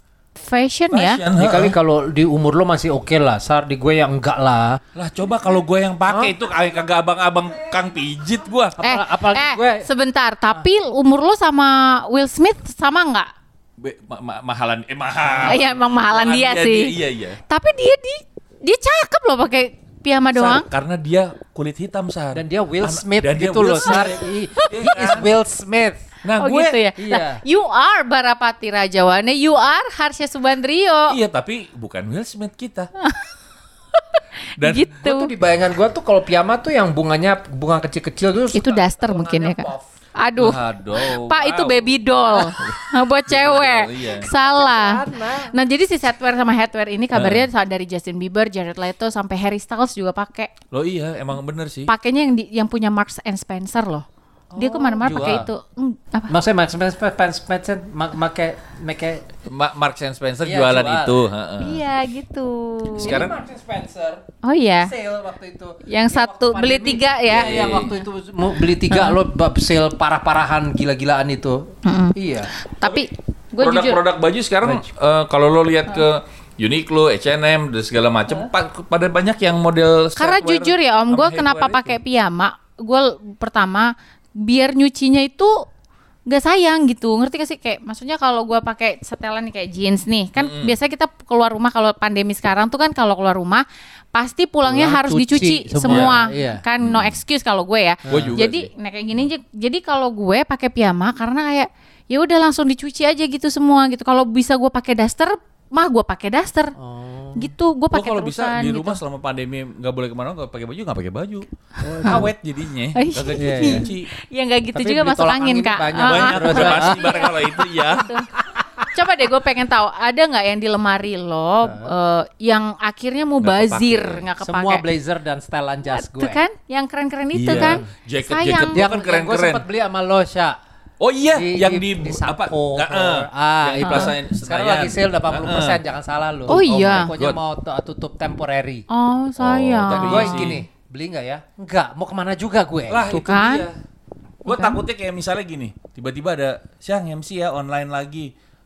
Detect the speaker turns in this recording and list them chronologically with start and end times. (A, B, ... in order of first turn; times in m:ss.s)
0:00.4-0:01.2 A
0:00.9-0:01.8 B
0:01.4-0:04.8 C
0:05.0-0:08.8 B
0:06.1-0:06.4 C
0:08.8-0:09.9 C
0:08.8-0:13.3 A
0:13.8-0:17.4 B
0:15.4-0:16.9 A
0:17.5-0:20.7 A
0:20.3-0:25.3 B
0:22.3-0:26.0 C
0:26.2-0:26.8 B
0:26.4-0:31.2 A
0:27.0-0:27.4 C
0:31.1-0:32.9 B
0:34.0-0:35.3 A
0:34.6-0:34.9 B
0:35.0-0:39.9 C
0:38.5-0:50.5 A
0:40.4-0:44.3 B
0:44.5-0:45.5 C
0:47.1-0:47.5 B
0:50.7-0:51.9 B
0:51.9-0:54.0 A
0:54.5-0:55.5 C
0:54.6-0:56.3 A
0:55.1-0:55.5 B
0:56.3-0:59.3 C
0:59.5-1:01.8 B
1:00.4-1:01.2 C
1:01.6-1:03.2 A
1:03.0-1:03.3 B
1:03.0-1:04.2 C
1:04.4-1:04.9 A
1:04.8-1:12.5 C
1:05.9-1:07.8 A
1:07.3-1:08.0 B
1:08.9-1:09.2 A
1:11.8-1:14.0 A
1:13.6-1:22.0 B
1:20.2-1:25.6 A
1:26.3-1:46.8 A
1:30.4-1:30.7 B
1:34.6-1:36.6 C
1:35.8-1:36.2 B
1:36.8-1:37.2 B
1:38.1-1:38.3 C
1:38.1-1:38.7 B
1:46.8-1:47.5 C
1:47.4-1:49.0 A
1:47.9-1:54.1 B
1:51.8-1:52.3 C
1:52.9-1:58.3 A
1:53.4-1:53.9 C
1:54.8-1:57.3 C
1:56.0-1:58.1 B
1:58.9-2:04.8 A
2:01.6-2:01.9 C
2:03.4-2:04.2 B
2:04.4-2:06.4 C
2:05.9-2:08.8 A
2:07.3-2:09.6 B
2:07.5-2:07.9 C
2:08.7-2:10.6 C
2:11.0-2:15.8 B
2:11.3-2:18.9 C
2:13.8-2:14.1 A
2:16.5-2:17.4 B
2:16.5-2:17.1 A
2:18.9-2:20.6 A
2:19.4-2:20.6 B
2:19.9-2:23.3 C
2:22.9-2:23.7 B
2:23.1-2:23.7 A
2:24.4-2:24.8 A
2:24.5-2:28.3 B